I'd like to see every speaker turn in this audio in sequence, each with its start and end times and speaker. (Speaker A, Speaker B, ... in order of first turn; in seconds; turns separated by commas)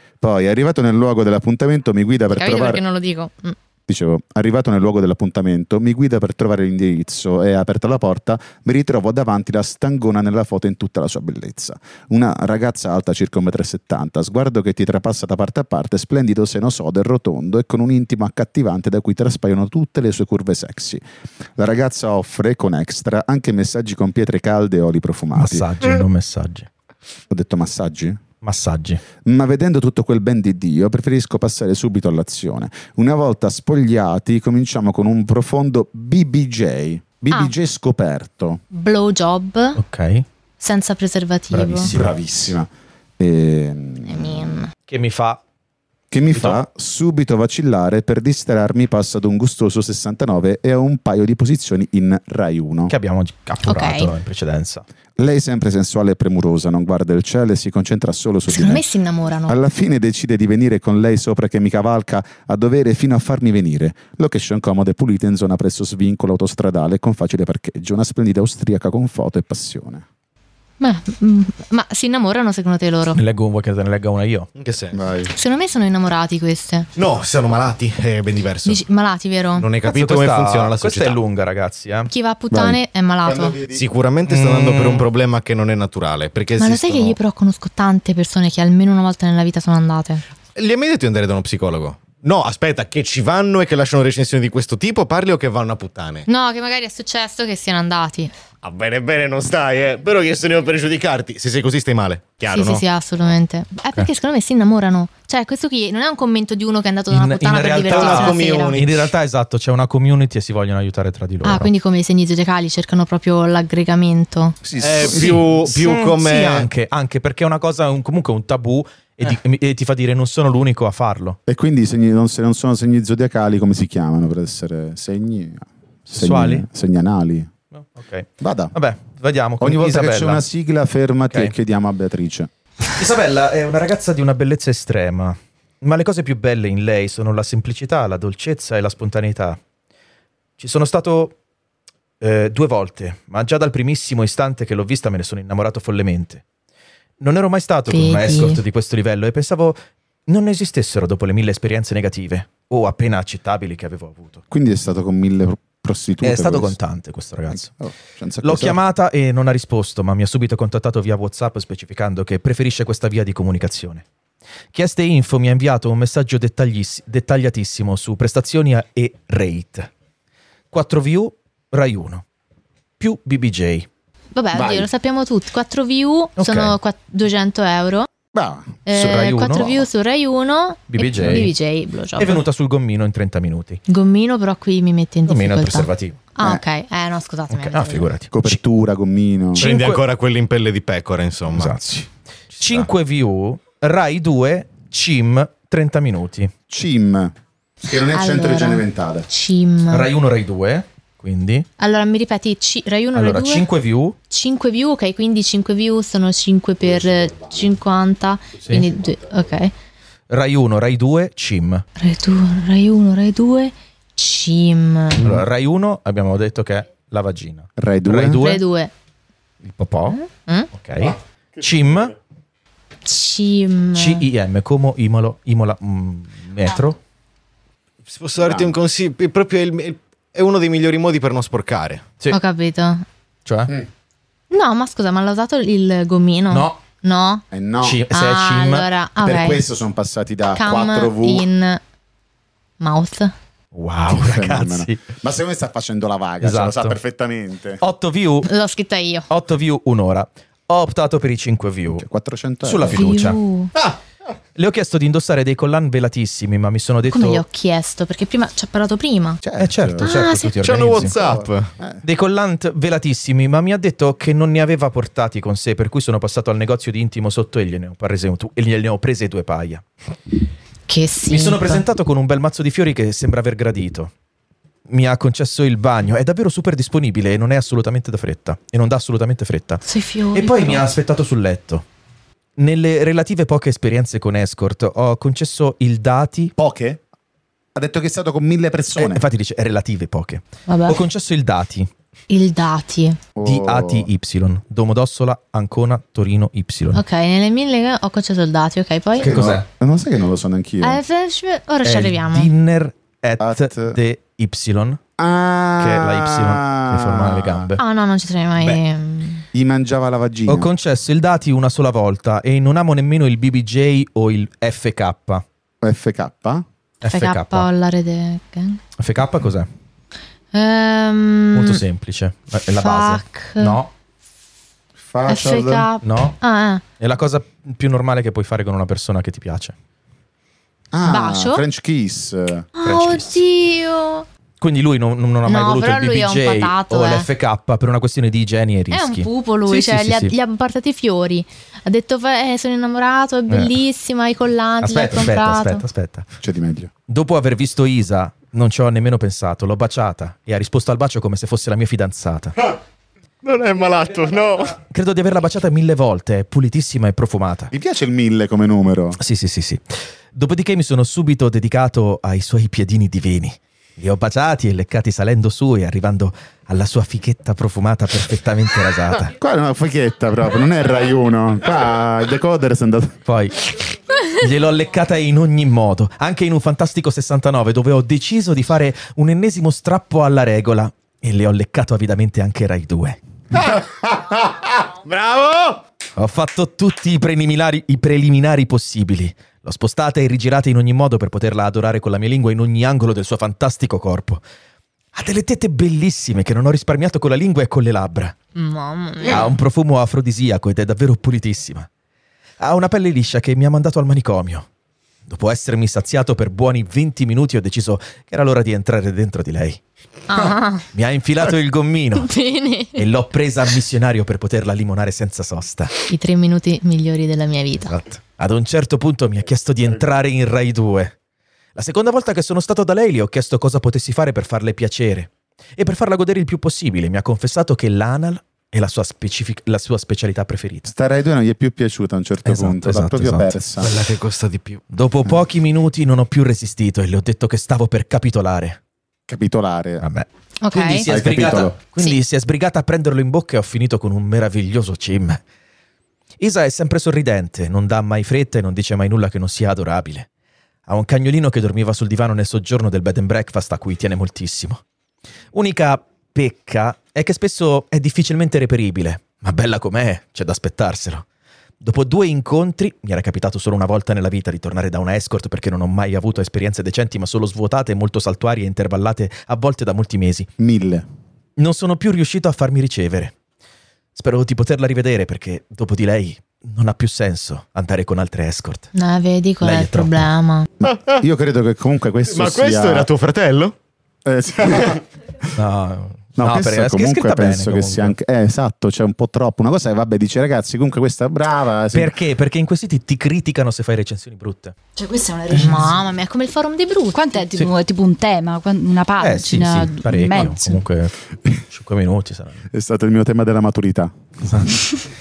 Speaker A: 0.2-2.8, Speaker B: 2.3-3.6, Speaker A: 3.9-21.0, Speaker A: 21.6-25.7, Speaker C: 25.4-26.7, Speaker A: 27.3-28.2, Speaker C: 28.4-29.0, Speaker A: 29.2-38.6, Speaker B: 38.7-39.8, Speaker C: 39.8-40.3, Speaker B: 40.6-41.9, Speaker C: 41.5-42.1, Speaker A: 41.8-44.6, Speaker B: 44.1-44.7, Speaker C: 44.9-45.4, Speaker A: 46.1-53.0, Speaker C: 46.3-46.6, Speaker C: 52.9-54.8, Speaker B: 53.6-54.1, Speaker A: 55.2-58.8, Speaker B: 58.5-59.6, Speaker A: 59.5-70.1, Speaker B: 70.8-73.2, Speaker C: 73.1-74.5, Speaker D: 74.6-75.0, Speaker A: 74.9-75.3, Speaker B: 75.3-76.9, Speaker D: 77.0-78.9, Speaker B: 78.7-79.7, Speaker D: 79.5-81.2, Speaker C: 79.8-82.1, Speaker B: 82.1-83.6, Speaker A: 82.5-83.8, Speaker D: 83.7-87.2, Speaker C: 84.3-85.1, Speaker B: 86.6-90.2, Speaker D: 90.6-96.3, Speaker B: 96.3-98.3, Speaker D: 98.6-102.8, Speaker B: 102.5-108.8, Speaker C: 107.1-111.7, Speaker D: 107.9-109.1, Speaker B: 111.4-114.6, Speaker A: 114.6-115.5, Speaker D: 114.8-116.7, Speaker C: 115.0-121.4, Speaker A: 121.5-127.5, Speaker C: 126.1-126.7, Speaker C: 127.7-130.5, Speaker A: 128.4-128.8, Speaker A: 129.6-132.5, Speaker C: 131.3-131.5, Speaker C: 132.9-139.6, Speaker C: 140.6-141.4, Speaker C: 142.2-146.4, Speaker C: 147.2-154.4, Speaker B: 147.9-148.6, Speaker A: 154.5-156.8, Speaker C: 156.2-157.8, Speaker A: 157.5-158.8, Speaker C: 158.4-164.1, Speaker C: 164.7-169.9, Speaker C: 170.7-172.2, Speaker C: 173.0-173.9, Speaker B: 174.3-178.1, Speaker A: 174.5-174.9, Speaker C: 176.4-176.8, Speaker A: 178.3-178.9, Speaker B: 178.9-182.4, Speaker C: 178.9-179.9, Speaker C: 180.9-181.5, Speaker A: 181.2-181.4, Speaker C: 182.2-183.8, Speaker B: 183.9-188.1, Speaker C: 185.3-186.2, Speaker C: 187.5-188.6, Speaker A: 188.3-189.7, Speaker D: 189.6-191.8, Speaker B: 189.6-189.9, Speaker C: 191.5-192.1, Speaker D: 192.5-192.9, Speaker C: 192.6-196.5, Speaker A: 196.7-197.3, Speaker A: 197.8-199.3, Speaker B: 197.9-200.1, Speaker C: 199.9-201.7, Speaker B: 201.8-203.7, Speaker C: 203.1-204.2, Speaker B: 204.3-209.7, Speaker A: 206.8-207.7, Speaker C: 210.3-211.8, Speaker B: 212.0-215.3, Speaker C: 215.2-218.7, Speaker A: 217.8-218.4, Speaker B: 218.4-218.9, Speaker C: 219.6-222.2, Speaker B: 220.2-220.7, Speaker B: 223.1-224.3, Speaker C: 223.9-227.0, Speaker D: 228.1-232.1, Speaker A: 228.4-228.7, Speaker B: 232.3-233.0, Speaker C: 233.5-233.7, Speaker B: 234.5-237.4, Speaker C: 236.5-236.8, Speaker A: 237.5-238.0, Speaker C: 237.8-238.9, Speaker B: 238.1-239.6, Speaker A: 239.2-241.5, Speaker B: 240.5-241.8, Speaker B: 242.8-243.3, Speaker C: 243.7-245.0, Speaker A: 244.1-247.8, Speaker C: 246.4-247.0, Speaker C: 247.8-248.5, Speaker B: 248.4-249.3, Speaker C: 249.3-252.1, Speaker A: 251.9-253.1, Speaker C: 252.6-253.4, Speaker B: 252.9-253.7, Speaker C: 254.6-257.4, Speaker B: 257.1-259.4, Speaker A: 259.4-260.2, Speaker C: 259.6-261.1, Speaker B: 260.0-260.6, Speaker D: 260.6-261.7, Speaker A: 261.0-262.0, Speaker C: 262.0-269.8, Speaker B: 270.9-271.8, Speaker C: 271.3-274.1, Speaker C: 274.9-281.8, Speaker B: 279.9-280.9, Speaker C: 282.6-286.5, Speaker A: 286.6-287.0, Speaker A: 287.8-289.2, Speaker C: 288.9-291.9, Speaker B: 290.7-291.0, Speaker B: 292.3-293.3, Speaker A: 293.4-294.1, Speaker C: 293.4-297.0, Speaker B: 296.9-299.3, Speaker A: 299.2-301.0, Speaker C: 299.2-299.7, Speaker B: 300.8-302.5, Speaker C: 301.8-305.0, Speaker A: 303.4-304.0, Speaker A: 305.2-307.7, Speaker C: 305.8-307.8, Speaker B: 307.8-309.4, Speaker A: 309.5-310.7, Speaker C: 310.5-315.4, Speaker A: 315.8-316.6, Speaker C: 317.0-317.7, Speaker B: 317.0-318.8, Speaker C: 319.0-319.7, Speaker B: 320.5-321.8, Speaker C: 321.5-323.9, Speaker B: 322.7-323.8, Speaker A: 325.0-325.9, Speaker B: 325.3-326.9, Speaker C: 326.0-326.4, Speaker C: 326.9-329.7, Speaker A: 330.9-332.7, Speaker B: 331.0-331.6, Speaker B: 332.8-334.3, Speaker C: 332.9-333.4, Speaker C: 334.6-340.3, Speaker B: 335.4-337.3, Speaker B: 338.9-345.9, Speaker C: 343.5-343.8, Speaker C: 344.8-346.3, Speaker A: 346.4-346.9, Speaker C: 347.1-352.6, Speaker D: 353.4-354.8, Speaker C: 354.8-357.7, Speaker A: 357.7-359.2, Speaker C: 359.2-359.8, Speaker C: 360.3-369.4, Speaker A: 369.4-373.2, Speaker C: 373.3-373.7, Speaker C: 374.2-383.2, Speaker D: 383.6-385.8, Speaker C: 386.2-394.4, Speaker C: 395.1-398.4, Speaker B: 398.6-399.5, Speaker C: 399.3-401.9, Speaker C: 402.6-404.7, Speaker C: 405.3-409.8, Speaker B: 410.3-410.9, Speaker C: 410.3-412.3, Speaker B: 412.1-413.0, Speaker C: 413.0-416.0, Speaker B: 416.1-417.9, Speaker C: 417.8-421.1, Speaker C: 421.8-430.9, Speaker A: 430.9-433.9, Speaker C: 432.4-433.6, Speaker D: 433.8-434.8, Speaker C: 434.9-438.8, Speaker A: 439.3-440.1, Speaker C: 440.0-445.4, Speaker B: 440.6-441.1, Speaker A: 441.1-441.8, Speaker C: 446.4-450.3, Speaker C: 450.9-454.8, Speaker C: 455.5-461.2, Speaker C: 461.8-470.5, Speaker A: 470.6-471.1, Speaker C: 471.6-473.3, Speaker C: 474.1-478.9, Speaker B: 478.9-480.7, Speaker C: 479.6-480.3, Speaker A: 480.9-483.1, Speaker D: 480.9-481.2, Speaker D: 482.2-483.8, Speaker A: 484.2-485.0, Speaker C: 485.6-488.1, Speaker A: 486.4-492.1, Speaker C: 491.9-494.8, Speaker E: 495.0-496.1, Speaker B: 495.5-497.6, Speaker E: 497.1-500.8, Speaker C: 499.2-502.6, Speaker A: 502.7-504.8, Speaker C: 504.4-504.8